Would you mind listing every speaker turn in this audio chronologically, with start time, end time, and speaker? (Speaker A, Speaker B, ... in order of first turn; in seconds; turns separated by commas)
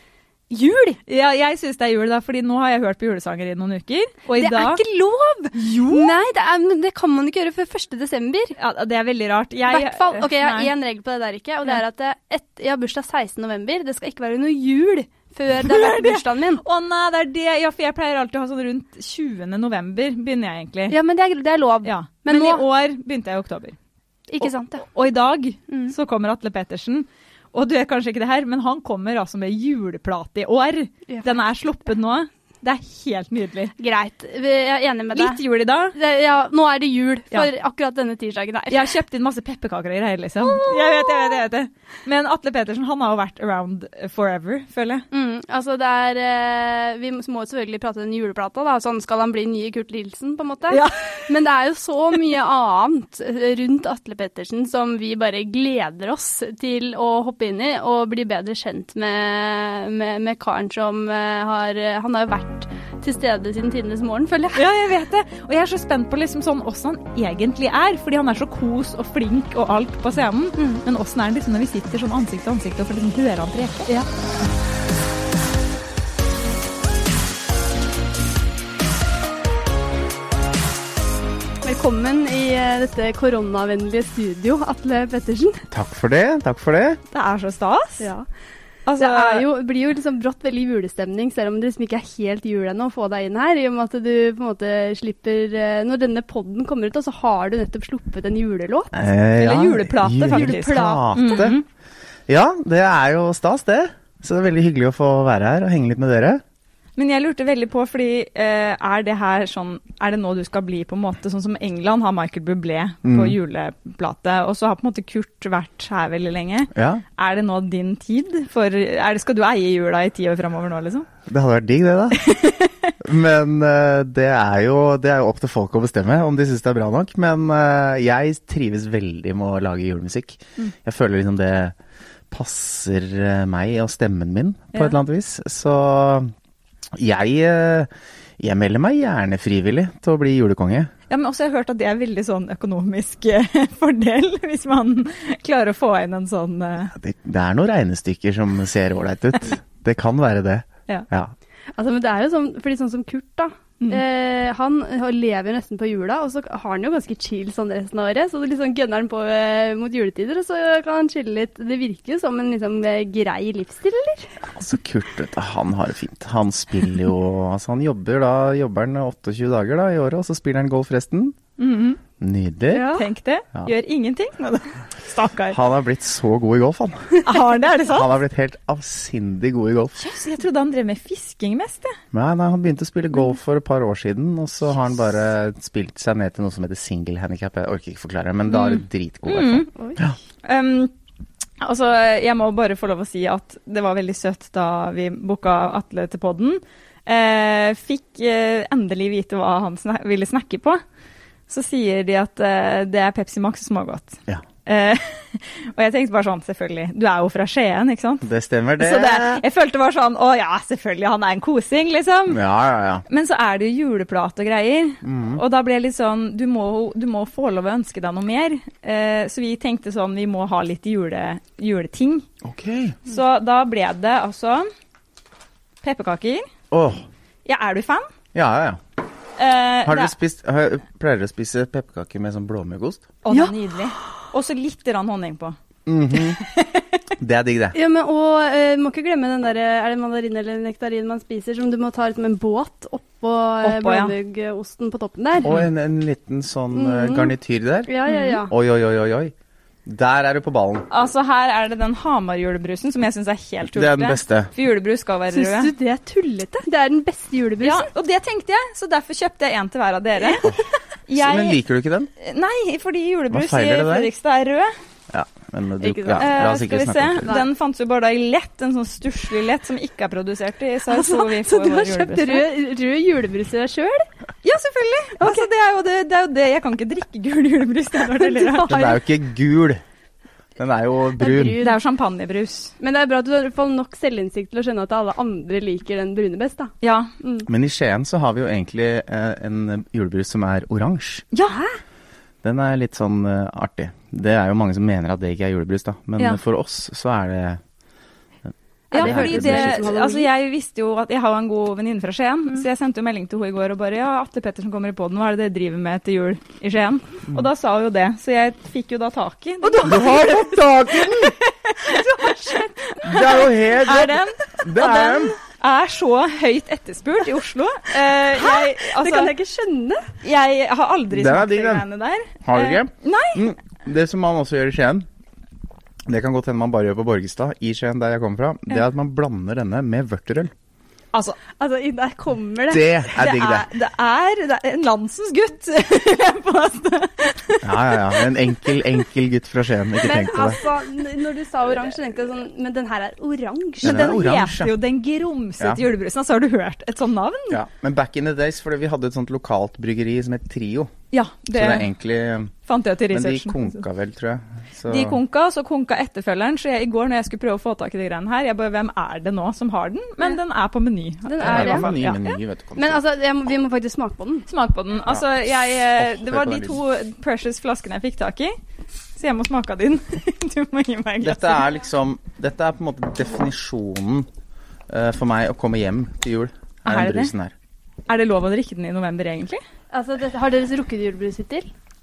Speaker A: 0.5-1.0, Speaker B: 1.1-4.8, Speaker A: 4.4-8.5, Speaker B: 5.5-6.1, Speaker B: 8.6-10.7, Speaker A: 9.7-16.6, Speaker B: 15.6-20.9, Speaker A: 20.9-22.6, Speaker B: 21.8-23.8, Speaker A: 24.3-24.9, Speaker B: 24.9-33.7, Speaker A: 25.7-25.9, Speaker A: 33.8-35.4, Speaker B: 35.1-36.0, Speaker A: 35.9-38.9, Speaker B: 38.7-45.0, Speaker A: 40.4-41.4, Speaker A: 45.1-64.6, Speaker B: 50.7-51.3, Speaker B: 64.5-73.9, Speaker A: 70.6-70.8, Speaker A: 81.6-85.6, Speaker C: 85.7-87.0, Speaker B: 87.1-88.1, Speaker A: 88.0-88.2, Speaker B: 88.9-89.5, Speaker A: 89.0-99.1, Speaker C: 98.9-101.6, Speaker B: 99.3-101.6, Speaker A: 100.3-101.0, Speaker C: 102.3-106.4, Speaker B: 107.0-121.1, Speaker C: 113.0-113.3, Speaker C: 116.7-117.0, Speaker C: 121.2-122.2, Speaker B: 122.1-122.9, Speaker C: 123.0-131.7, Speaker C: 132.3-136.3, Speaker C: 136.9-140.9, Speaker B: 141.1-146.9, Speaker C: 146.9-151.3, Speaker A: 151.8-164.3, Speaker C: 164.4-171.3, Speaker B: 171.6-172.0, Speaker C: 172.2-172.9, Speaker A: 172.7-173.0, Speaker B: 172.8-175.6, Speaker C: 175.5-177.2, Speaker B: 177.2-178.1, Speaker C: 177.9-180.0, Speaker B: 180.0-181.9, Speaker C: 182.1-190.2, Speaker B: 188.5-189.7, Speaker B: 190.4-190.9, Speaker B: 191.6-200.8, Speaker B: 201.5-212.4, Speaker C: 208.2-209.4, Speaker C: 212.3-213.0, Speaker B: 213.1-222.2, Speaker C: 215.0-215.4, Speaker C: 222.4-223.0, Speaker B: 223.1-224.7, Speaker B: 225.8-226.5, Speaker C: 226.7-227.1, Speaker B: 227.4-228.1, Speaker C: 228.3-228.8, Speaker B: 229.4-230.1, Speaker C: 229.8-233.1, Speaker B: 233.2-235.6, Speaker C: 235.8-236.4, Speaker B: 236.1-236.8, Speaker C: 237.2-237.8, Speaker A: 237.7-245.6, Speaker B: 243.6-244.1, Speaker C: 245.4-249.3, Speaker A: 246.7-247.3, Speaker A: 247.9-248.5, Speaker B: 248.1-248.4, Speaker C: 249.8-250.9, Speaker B: 250.9-255.7, Speaker C: 253.6-254.5, Speaker A: 255.3-257.9, Speaker B: 257.6-260.5, Speaker B: 261.1-261.6, Speaker C: 261.1-262.1, Speaker B: 262.2-264.7, Speaker C: 263.3-264.1, Speaker C: 265.1-267.3, Speaker A: 265.8-266.6, Speaker B: 266.2-272.5, Speaker A: 270.9-274.1, Speaker B: 274.4-279.0, Speaker A: 275.2-275.4, Speaker A: 278.2-278.9, Speaker C: 278.6-279.8, Speaker C: 280.6-281.6, Speaker A: 281.2-281.8, Speaker B: 281.6-282.7, Speaker A: 282.8-287.5, Speaker B: 286.8-287.1, Speaker C: 287.5-291.2, Speaker B: 291.3-291.6, Speaker C: 292.4-297.6, Speaker C: 298.5-299.8, Speaker A: 298.9-300.3, Speaker B: 298.9-319.3, Speaker A: 309.6-310.3, Speaker C: 309.8-311.3, Speaker A: 311.8-312.9, Speaker C: 313.0-315.3, Speaker A: 318.3-320.1, Speaker B: 320.2-323.3, Speaker C: 321.1-321.9, Speaker C: 322.4-325.1, Speaker C: 326.1-330.5, Speaker A: 331.6-332.9, Speaker C: 332.7-333.7, Speaker B: 333.1-337.7, Speaker C: 337.6-340.6, Speaker A: 340.0-344.1, Speaker C: 343.8-344.7, Speaker B: 343.8-347.6, Speaker C: 347.5-350.9, Speaker B: 351.1-351.9, Speaker C: 351.5-352.5, Speaker B: 352.6-353.8, Speaker C: 353.1-355.2, Speaker B: 354.9-362.2, Speaker A: 361.2-361.9, Speaker C: 361.4-363.0, Speaker A: 362.8-364.5, Speaker B: 364.5-368.5, Speaker C: 365.1-366.8, Speaker B: 369.1-371.7, Speaker C: 371.2-374.3, Speaker C: 374.9-377.5, Speaker B: 376.9-377.3, Speaker B: 378.1-379.6, Speaker A: 379.9-381.7